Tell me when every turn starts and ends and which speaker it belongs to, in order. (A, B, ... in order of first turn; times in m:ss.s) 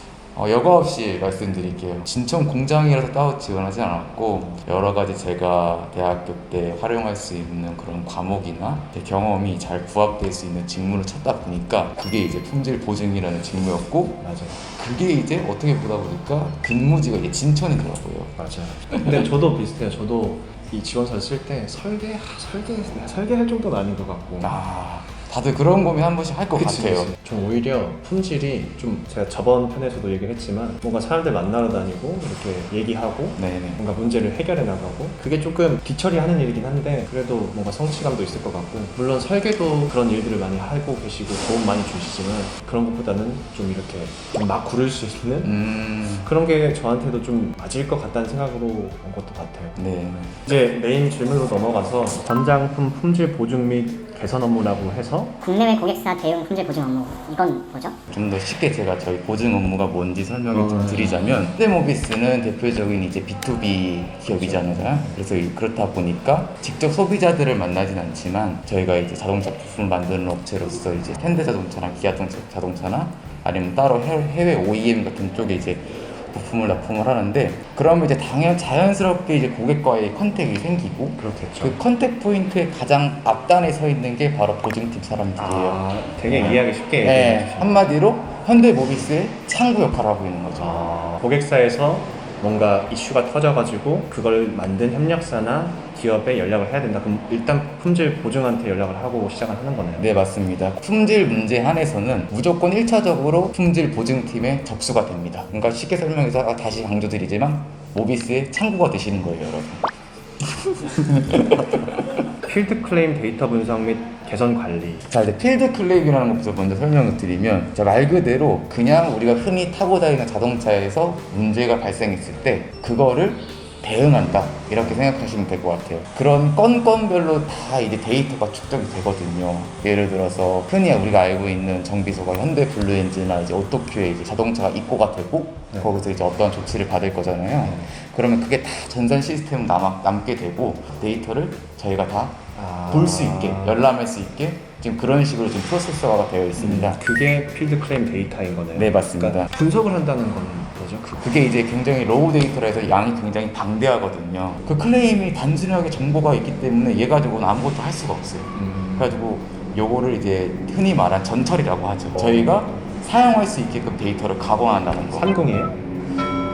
0:00.3-0:18.3 A
0:04.4-0:04.6 B
0:14.2-0:14.6 B
0:18.4-0:24.6 B
0:18.9-0:19.3 A
0:24.4-0:27.1 A
0:26.5-0:45.6 B
0:33.4-0:33.8 A
0:45.4-0:46.3 A
0:46.1-0:49.8 B
0:49.8-0:50.4 A
0:50.3-0:55.3 B
0:55.4-0:57.9 C
0:58.1-1:30.9 A
1:00.5-1:01.2 B
1:04.3-1:05.2 B
1:21.2-1:21.8 B
1:25.4-1:27.9 B
1:30.6-1:40.1 B
1:40.0-1:49.8 A
1:50.8-1:52.1 A
1:52.4-1:55.0 B
1:55.1-2:27.0 A
2:17.6-2:17.9 B
2:22.5-2:23.9 B
2:26.6-2:31.3 B
2:28.7-2:29.5 A
2:31.2-2:45.3 A
2:38.6-2:39.2 B
2:42.2-2:42.5 B
2:45.1-2:45.8 B